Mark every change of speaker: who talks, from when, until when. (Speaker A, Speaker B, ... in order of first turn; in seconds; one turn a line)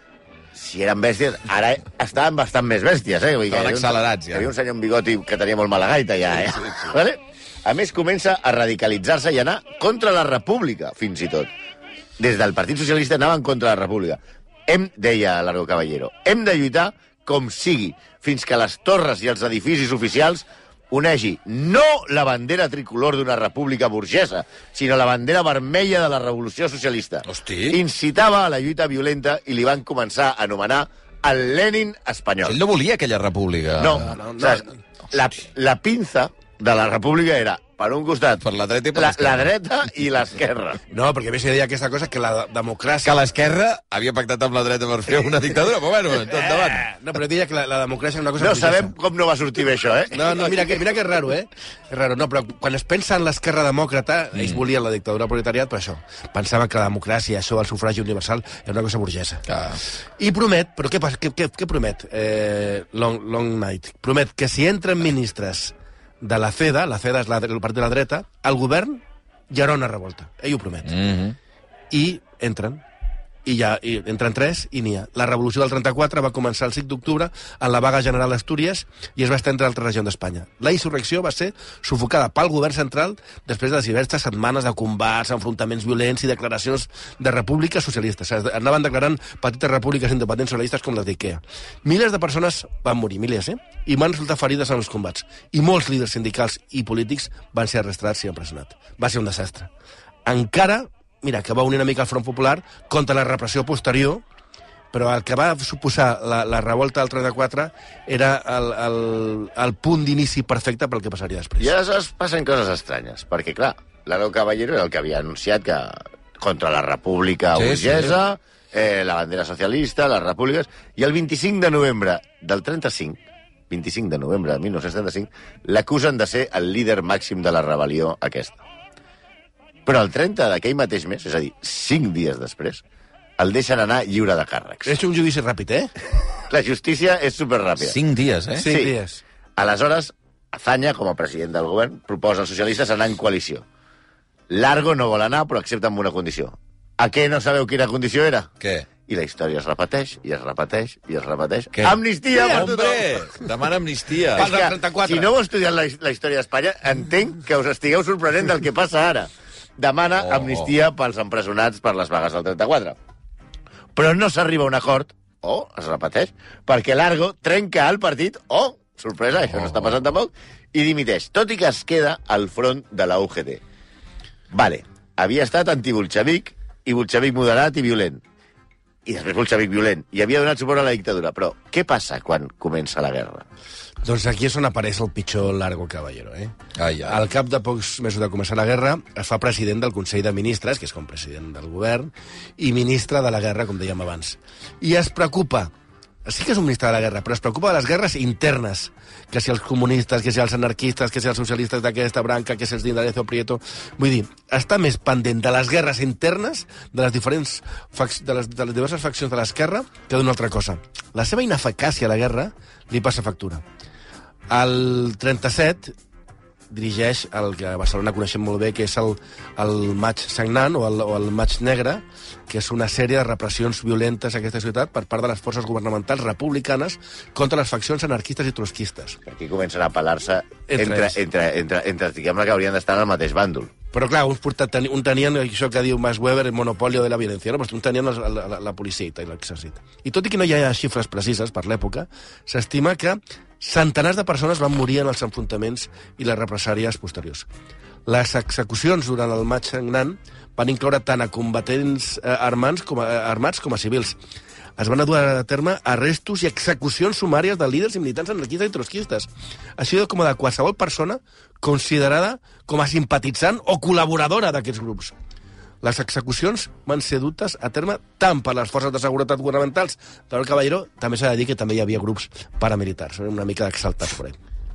Speaker A: 0.5-11.5
Speaker B: 3.5-4.5
Speaker A: 12.2-32.6
Speaker B: 27.2-27.8
Speaker B: 32.4-34.1
Speaker A: 33.8-40.8
Speaker C: 34.0-34.7
Speaker B: 38.4-39.5
Speaker C: 40.9-43.2
Speaker B: 43.0-46.8
Speaker C: 46.2-48.9
Speaker A: 48.4-50.6
Speaker C: 50.1-59.5
Speaker B: 59.5-59.8
Speaker C: 60.2-71.0
Speaker B: 70.8-71.3
Speaker C: 71.9-72.8
Speaker C: 73.4-99.7
Speaker C: 100.2-104.2
Speaker C: 104.9-111.7
Speaker A: 111.6-123.2
Speaker B: 117.5-118.2
Speaker A: 123.7-128.6
Speaker A: 129.8-132.8
Speaker A: 133.4-134.9
Speaker C: 134.8-135.9
Speaker A: 136.5-138.0
Speaker B: 137.8-138.7
Speaker C: 138.6-139.2
Speaker A: 138.6-138.9
Speaker A: 139.6-143.6
Speaker A: 144.5-148.5
Speaker B: 148.6-148.9
Speaker A: 149.1-153.1
Speaker B: 151.7-154.5
Speaker C: 152.3-152.7
Speaker C: 154.3-155.3
Speaker A: 154.3-163.0
Speaker B: 160.2-160.7
Speaker A: 163.9-173.6
Speaker B: 169.4-169.9
Speaker A: 174.5-178.2
Speaker A: 179.0-183.4
Speaker C: 184.0-195.7
Speaker B: 186.8-187.2
Speaker C: 196.2-213.6
Speaker C: 214.5-215.9
Speaker C: 216.7-229.2
Speaker A: 229.2-233.7
Speaker C: 230.7-231.2
Speaker C: 233.9-247.5
Speaker C: 248.1-254.2
Speaker C: 254.8-265.1
Speaker C: 265.8-274.4